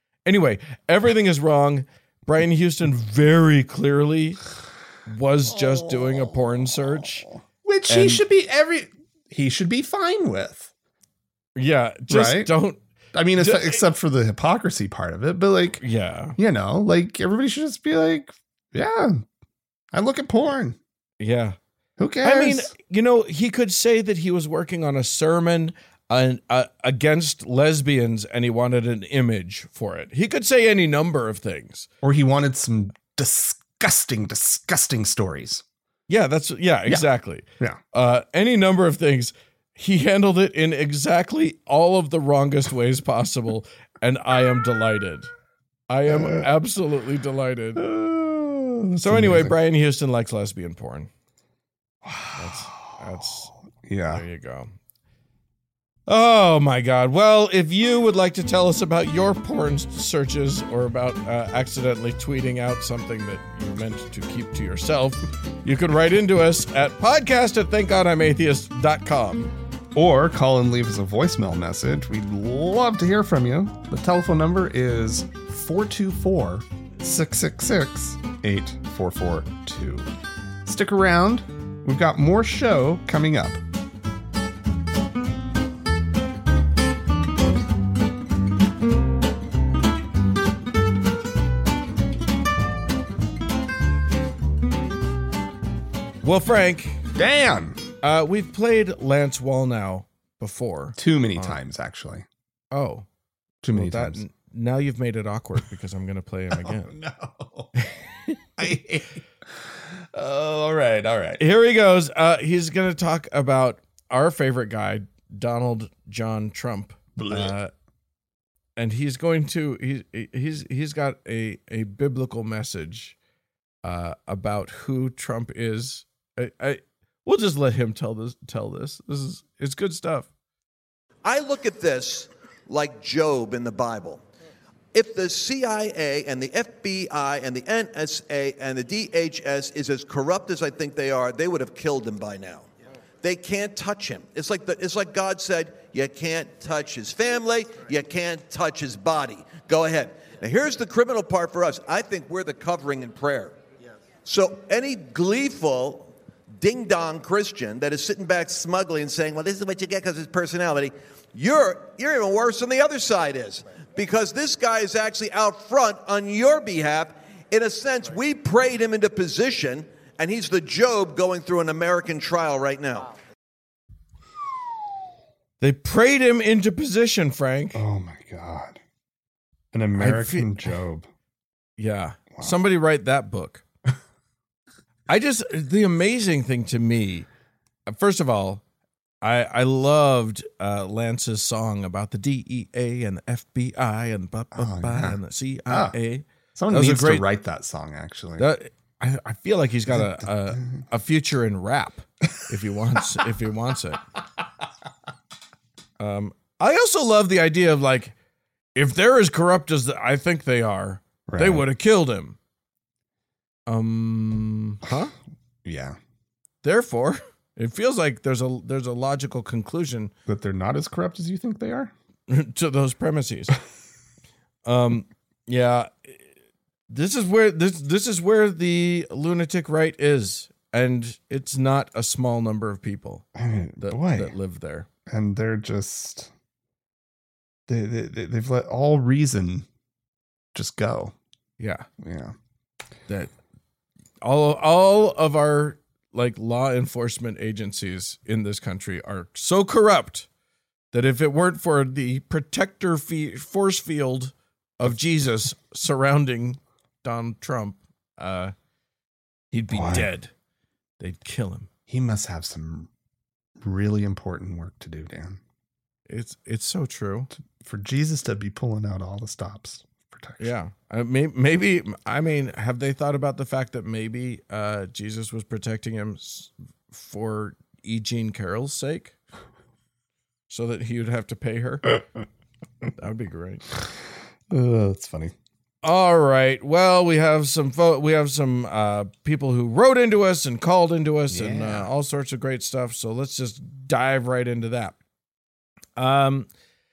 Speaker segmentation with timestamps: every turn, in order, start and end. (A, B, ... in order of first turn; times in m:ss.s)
0:00.3-0:04.4 A
0:05.1-0:07.3 A
0:05.5-0:10.7 B
0:07.9-0:08.2 A
0:11.6-0:12.8 A
0:12.1-0:12.5 B
0:13.1-0:15.8 B
0:13.4-0:13.8 A
0:15.8-0:16.4 A
0:16.4-0:19.2 B
0:19.9-0:20.8 B
0:21.2-0:21.6 A
0:22.0-0:22.7 B
0:22.2-0:31.9 A
0:32.0-0:35.6 B
0:36.1-0:45.3 A
0:45.9-0:47.8 A
0:46.1-0:46.5 B
0:47.8-0:49.6 B
0:49.0-0:51.1 A
0:52.0-0:53.0 B
0:52.4-0:53.5 A
0:53.8-0:54.2 B
0:54.1-0:54.7 A
0:56.1-1:09.5 A
1:09.9-1:20.1 B
1:20.7-1:23.6 B
1:36.2-1:37.0 A
1:37.2-1:37.8 B
1:38.0-1:41.6 A
1:41.0-1:42.3 B
1:42.7-1:43.1 A
1:43.6-1:44.2 B
1:43.7-1:46.9 A
1:46.5-1:47.7 B
1:47.8-1:48.4 A
1:48.6-1:51.4 B
1:51.4-1:57.7 A
1:57.2-1:57.6 B
1:58.8-2:03.2 A
2:03.8-2:10.3 A
2:11.2-2:14.2 C
2:14.9-2:22.7 C
2:23.2-2:33.6 C
2:34.2-2:53.1 C
2:55.6-2:57.8 A
2:57.8-2:58.8 B
2:59.7-3:01.1 B
3:00.0-3:00.6 A
3:01.8-3:03.6 A
3:05.1-3:07.3 A
3:07.9-3:08.6 A
3:09.2-3:17.2 A
3:14.6-3:15.2 B
3:15.7-3:15.9 B
3:16.6-3:18.5 B
3:18.4-3:24.0 A
3:19.9-3:20.7 B
3:26.0-3:28.1 A
3:28.8-3:32.4 A
3:31.3-3:31.7 B
3:33.7-3:35.1 A
3:35.6-3:36.0 B
3:36.6-3:40.1 A
3:40.3-3:41.9 B
3:42.3-3:43.6 A
3:44.6-3:46.3 A
3:46.9-3:53.2 A
3:53.4-3:54.3 B
3:53.8-3:54.9 A
3:55.1-3:56.3 B
3:57.7-3:59.7 B
4:00.5-4:01.1 B
4:01.6-4:01.9 A
4:02.0-4:02.4 B
4:04.2-4:10.3 A
4:10.9-4:18.5 A
4:19.5-4:20.3 A
4:19.7-4:20.1 B
4:21.0-4:21.7 A
4:21.9-4:22.9 B
4:23.6-4:25.4 B
4:26.1-4:27.3 A
4:27.4-4:30.5 B
4:30.4-4:39.2 A
4:40.5-4:42.0 A
4:43.0-4:43.6 A
4:44.5-4:45.3 B
4:45.8-4:55.0 A
4:51.3-4:51.9 B
4:56.0-4:56.5 A